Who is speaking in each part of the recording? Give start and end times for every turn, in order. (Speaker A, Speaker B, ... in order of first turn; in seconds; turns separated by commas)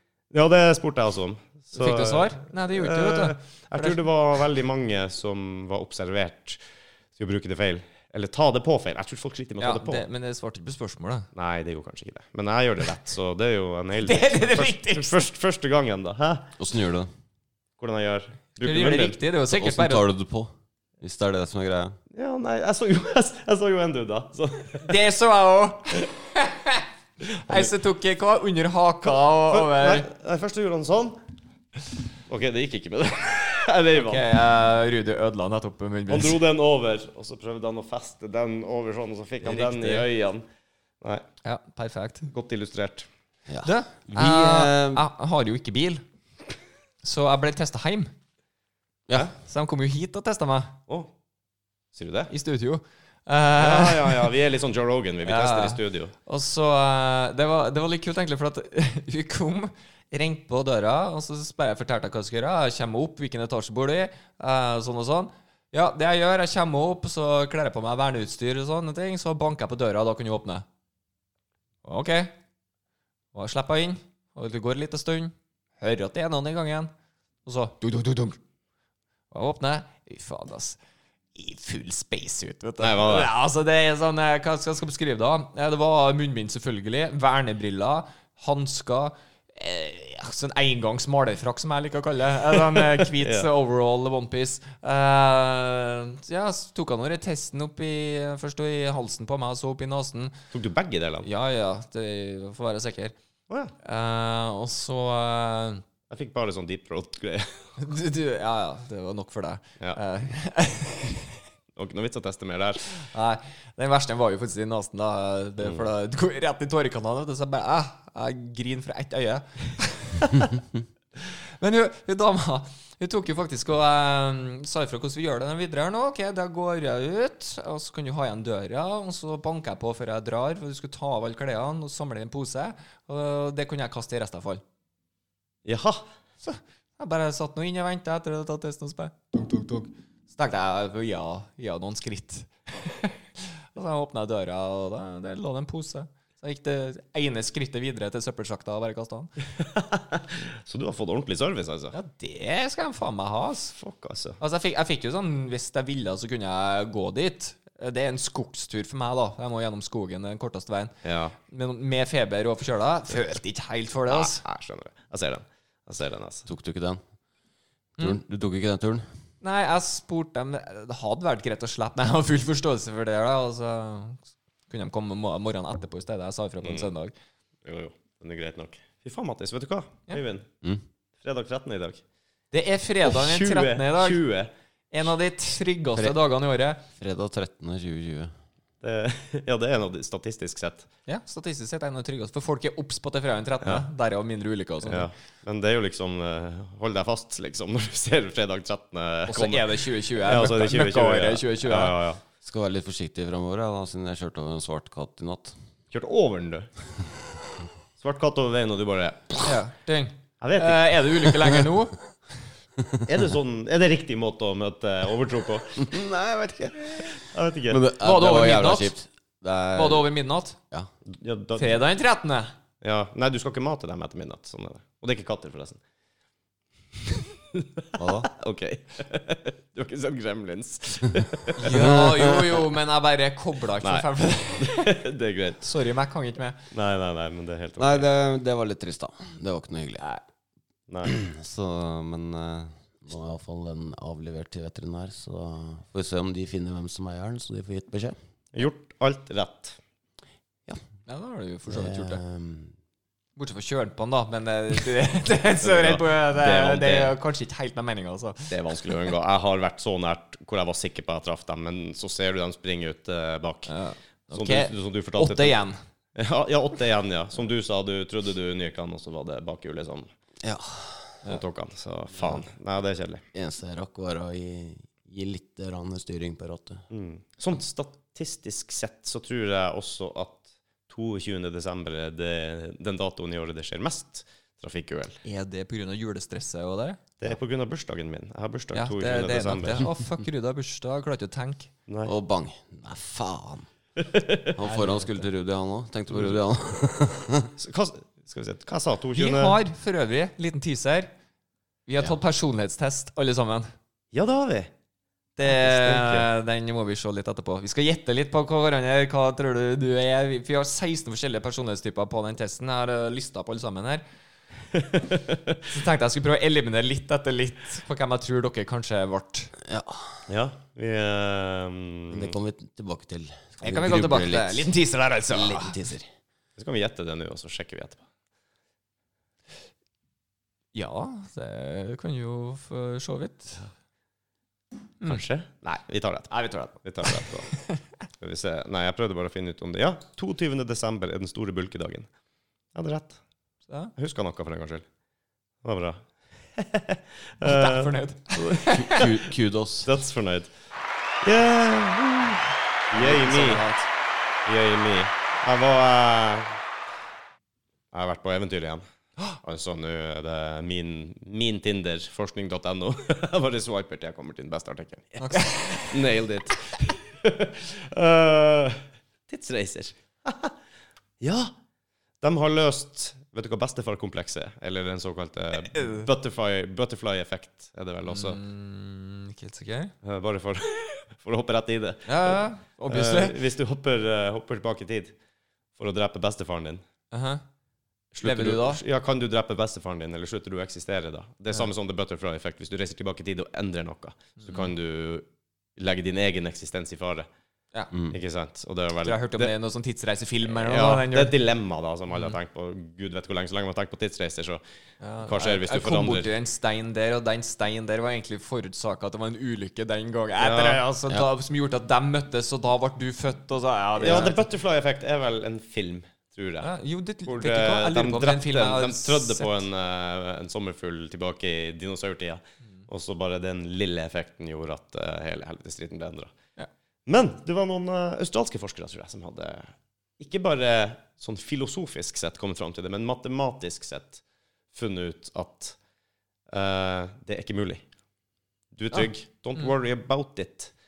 Speaker A: 0.3-6.6, Speaker B: 1.7-4.0, Speaker A: 7.2-10.0, Speaker B: 9.6-11.3, Speaker A: 11.3-16.5, Speaker B: 14.0-15.2, Speaker C: 16.6-17.1, Speaker A: 17.8-19.2, Speaker B: 18.6-20.0, Speaker C: 19.5-22.0, Speaker A: 22.1-25.0, Speaker B: 24.8-26.9, Speaker A: 27.3-27.7, Speaker B: 27.5-30.1, Speaker A: 29.0-31.2, Speaker A: 32.3-34.2, Speaker B: 33.9-36.4, Speaker A: 36.1-40.4, Speaker B: 39.4-40.1, Speaker B: 41.4-42.3, Speaker A: 42.3-43.1, Speaker C: 43.5-45.0, Speaker B: 43.6-46.0, Speaker B: 47.0-48.1, Speaker B: 49.4-50.7, Speaker A: 51.9-52.3, Speaker B: 52.3-54.3, Speaker A: 53.6-56.1, Speaker B: 55.2-70.6, Speaker B: 71.8-72.3, Speaker B: 73.3-76.9, Speaker B: 77.5-78.3, Speaker B: 79.3-80.8, Speaker B: 81.3-100.4, Speaker A: 82.8-83.3, Speaker A: 92.7-93.5, Speaker A: 100.5-101.3, Speaker B: 101.2-103.1, Speaker B: 103.8-105.8, Speaker A: 106.1-107.7, Speaker B: 107.8-111.4, Speaker A: 111.8-113.0, Speaker B: 113.0-120.6, Speaker A: 115.6-115.9, Speaker B: 121.3-134.6, Speaker A: 135.6-136.0, Speaker B: 136.4-149.3, Speaker A: 149.6-151.9, Speaker B: 151.9-153.8, Speaker A: 153.8-154.4, Speaker B: 154.4-164.4, Speaker A: 161.0-161.3, Speaker A: 164.1-166.4, Speaker C: 166.4-167.0, Speaker C: 168.0-169.1, Speaker B: 169.4-177.1, Speaker A: 177.6-180.5, Speaker A: 181.2-182.0, Speaker B: 182.5-184.2, Speaker A: 183.0-184.5, Speaker B: 184.9-186.8, Speaker C: 186.9-188.3, Speaker A: 188.8-190.9, Speaker B: 191.1-195.1, Speaker A: 194.8-202.2, Speaker B: 199.3-201.9, Speaker C: 202.4-205.5, Speaker A: 205.9-206.7, Speaker A: 208.0-209.6, Speaker B: 209.4-212.0, Speaker A: 210.4-210.8, Speaker A: 213.1-215.9, Speaker C: 215.8-217.2, Speaker A: 217.2-217.8, Speaker C: 217.7-220.1, Speaker B: 217.9-218.9, Speaker B: 219.7-220.6, Speaker A: 221.1-221.7, Speaker B: 221.6-222.5, Speaker A: 222.8-225.8, Speaker A: 227.1-231.9, Speaker C: 227.9-228.3, Speaker B: 231.6-235.0, Speaker C: 231.7-232.6, Speaker A: 233.8-235.6, Speaker B: 235.6-236.6, Speaker A: 236.7-238.1, Speaker C: 237.8-240.2, Speaker C: 241.0-248.2, Speaker A: 248.5-249.8, Speaker B: 251.1-252.2, Speaker C: 251.7-252.7, Speaker B: 253.3-259.1, Speaker A: 255.6-257.1, Speaker A: 258.5-263.7, Speaker B: 263.7-265.8, Speaker A: 264.3-265.6, Speaker A: 266.1-270.1, Speaker C: 270.4-271.2, Speaker A: 271.2-273.2, Speaker C: 273.3-276.8, Speaker A: 276.9-285.2, Speaker B: 285.2-287.0, Speaker A: 287.2-289.9, Speaker B: 288.7-291.7, Speaker C: 292.0-293.7, Speaker A: 294.0-294.5, Speaker C: 294.5-297.5, Speaker B: 294.6-295.1, Speaker A: 297.6-299.6, Speaker B: 299.2-301.1, Speaker B: 301.9-303.7, Speaker A: 304.1-304.7, Speaker B: 305.4-314.0, Speaker A: 305.4-306.3, Speaker A: 314.8-315.6, Speaker B: 315.7-319.5, Speaker C: 319.6-320.2, Speaker A: 320.3-322.3, Speaker C: 322.1-324.7, Speaker B: 323.6-325.8, Speaker C: 325.3-326.1, Speaker A: 326.6-328.0, Speaker B: 330.7-333.6, Speaker A: 335.0-337.5, Speaker B: 336.3-337.6, Speaker A: 338.2-342.1, Speaker A: 342.7-343.2, Speaker A: 343.9-344.8, Speaker A: 345.6-346.0, Speaker A: 346.5-349.1, Speaker B: 347.4-349.2, Speaker C: 348.5-349.9, Speaker A: 349.8-350.5, Speaker A: 351.2-353.6, Speaker B: 352.9-353.9, Speaker A: 354.4-356.6, Speaker A: 357.9-358.8, Speaker A: 359.4-370.5, Speaker B: 365.2-366.0, Speaker A: 371.2-371.5, Speaker A: 372.2-378.4, Speaker B: 375.7-376.1, Speaker B: 378.1-379.9, Speaker A: 380.0-385.1, Speaker B: 382.1-383.4, Speaker A: 385.8-386.8, Speaker B: 387.1-387.4, Speaker A: 388.1-395.2, Speaker B: 388.2-388.8, Speaker B: 394.4-394.7, Speaker A: 395.8-397.3, Speaker A: 398.1-399.5, Speaker B: 399.0-401.3, Speaker A: 400.5-404.6, Speaker B: 405.0-414.4, Speaker A: 405.2-406.3, Speaker A: 410.4-410.8, Speaker A: 414.0-416.7, Speaker B: 416.6-419.6, Speaker A: 417.2-426.3, Speaker A: 427.1-434.2, Speaker A: 434.7-435.8, Speaker A: 436.5-437.8, Speaker A: 438.7-440.7